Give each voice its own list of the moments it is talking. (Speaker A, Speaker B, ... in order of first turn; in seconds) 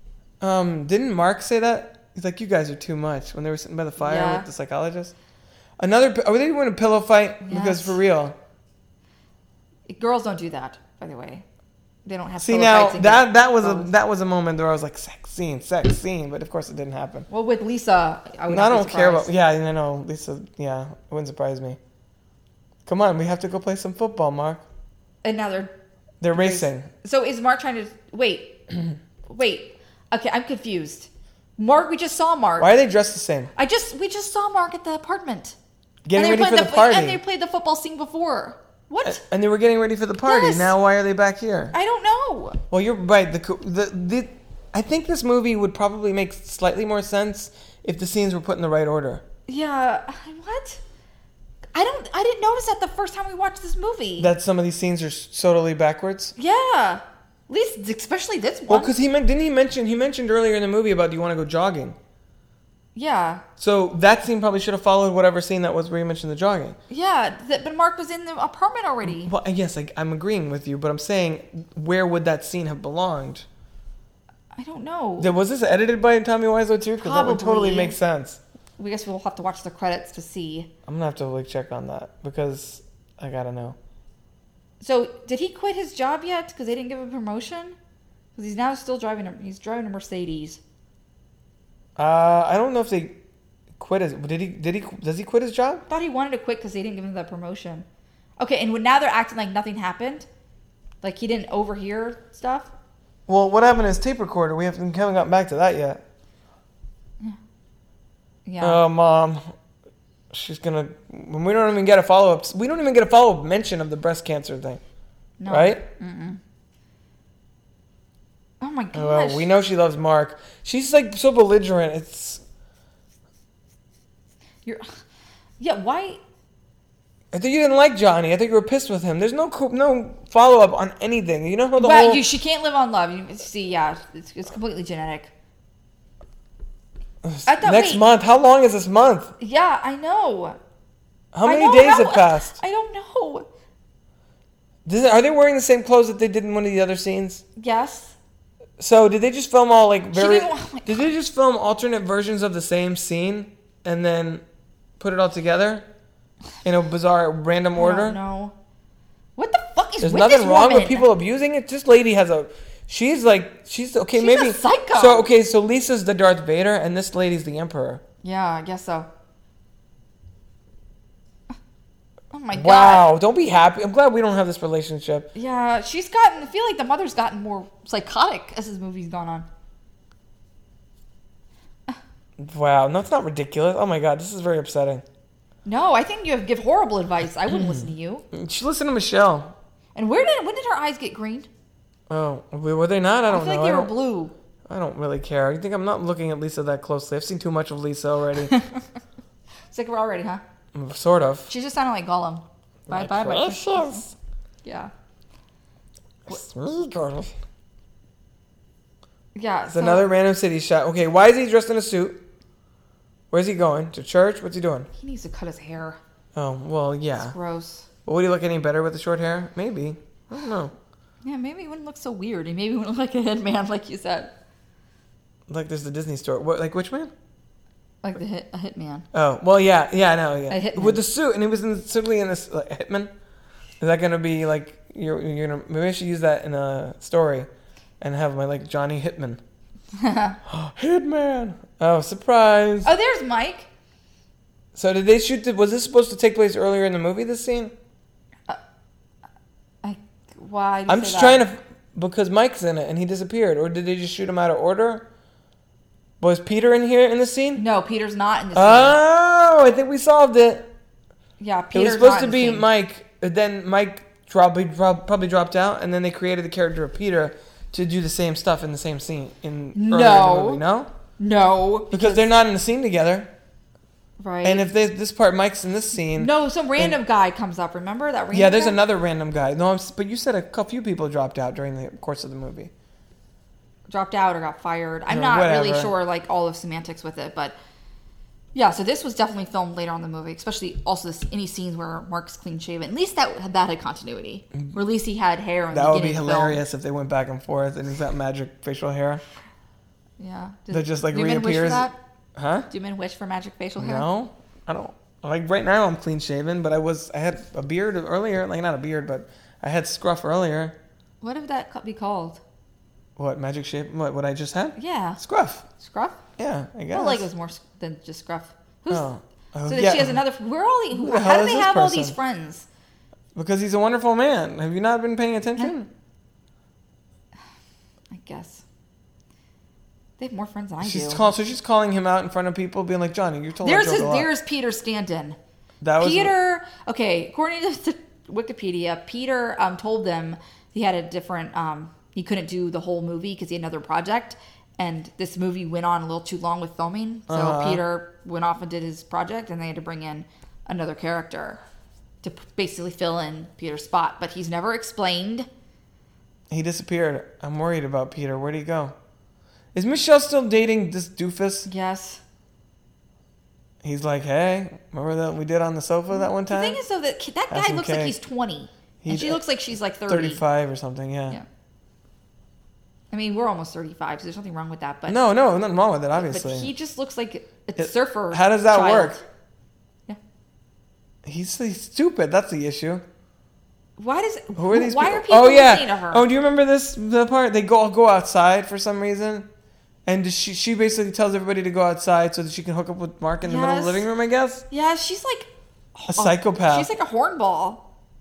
Speaker A: 0.4-5.1, 5.8-8.3, 12.4-17.3, 18.5-21.8, 22.9-24.6, 26.2-26.9, 32.6-33.5, 36.0-37.2, 39.0-41.7, 42.7-49.2, 54.2-56.3, 58.7-62.0, 63.6-66.8, 69.0-73.5, 75.2-78.4, 80.9-83.8, 92.0-93.2, 93.8-95.8, 103.3-106.0, 108.6-109.4, 110.3-114.8, 115.5-115.8, 118.9-122.4, 127.3-132.2, 137.2-139.3, 141.3-142.6, 144.8-147.4, 148.8-154.4, 155.0-155.8, 156.6-158.2, 160.0-168.0, 172.5-175.3, 182.4-185.0, 187.5-189.5, 192.1-193.9, 194.7-198.5, 200.7-201.5, 202.9-204.1, 206.3-207.3, 209.7-212.2, 213.3-214.9, 216.3-217.3, 218.1-220.7, 225.5-227.1, 229.1-233.1, 233.8-237.5, 238.0-239.4, 240.4-242.9, 244.7-247.7, 250.9-255.1, 256.2-257.6, 258.5-260.7, 261.7-270.9, 271.9-273.3, 274.4-277.0, 278.3-282.7, 285.1-285.9, 295.7-299.2, 300.7-302.7, 303.8-310.8, 313.2-315.6, 316.4-317.3, 318.9-320.2, 320.9-322.1, 323.3-325.9, 330.8-334.3, 335.8-336.3, 347.3-347.8, 356.5-358.9, 359.7-361.7, 363.8-366.8, 367.5-368.1, 369.0-369.4, 370.1-371.4, 375.1-376.7, 377.8-379.2, 381.2-383.0, 384.5-389.5, 390.1-394.6, 396.1-396.9
Speaker B: 4.0-4.5, 7.4-8.0, 9.9-11.4, 12.0-13.9, 17.3-19.3, 25.2-25.7, 26.3-28.6, 29.3-32.7, 33.5-35.6, 36.1-39.2, 40.2-40.7, 41.7-42.6, 49.5-50.8, 51.7-54.3, 56.4-58.9, 62.9-63.4, 66.9-69.3, 74.5-75.3, 77.0-78.0, 78.8-80.7, 84.8-87.8, 88.3-90.6, 95.9-97.8, 98.4-100.3, 101.0-102.7, 108.4-108.8, 115.4-116.4, 118.6-119.5, 124.6-124.9, 125.6-126.2, 131.8-135.3, 137.4-138.0, 139.4-140.6, 141.4-143.5, 147.6-148.1, 150.1-151.1, 157.7-158.5, 159.3-161.1, 164.1-165.3, 168.2-169.1, 172.3-173.1, 175.3-179.5, 185.6-188.2, 189.9-191.5, 193.3-194.3, 199.7-200.4, 201.5-204.0, 204.6-204.9, 206.3-206.9, 209.3-210.1, 214.9-216.0, 217.1-217.9, 221.2-224.3, 228.0-229.1, 230.5-231.0, 239.9-240.4, 242.8-243.7, 249.8-251.4, 257.6-259.0, 261.4-262.7, 269.7-270.6, 271.2-272.2, 274.2-274.6, 276.1-278.8, 283.9-287.6, 288.5-296.6, 300.2-301.9, 302.7-304.1, 311.2-312.4, 314.8-315.2, 315.7-316.2, 316.9-319.1, 319.7-322.7, 328.1-328.6, 330.2-331.3, 333.6-335.4, 336.0-351.6, 352.2-355.5, 361.6-362.2, 366.1-370.4, 373.1-375.2, 376.1-379.2, 384.0-386.2, 393.4-394.1, 394.7-397.8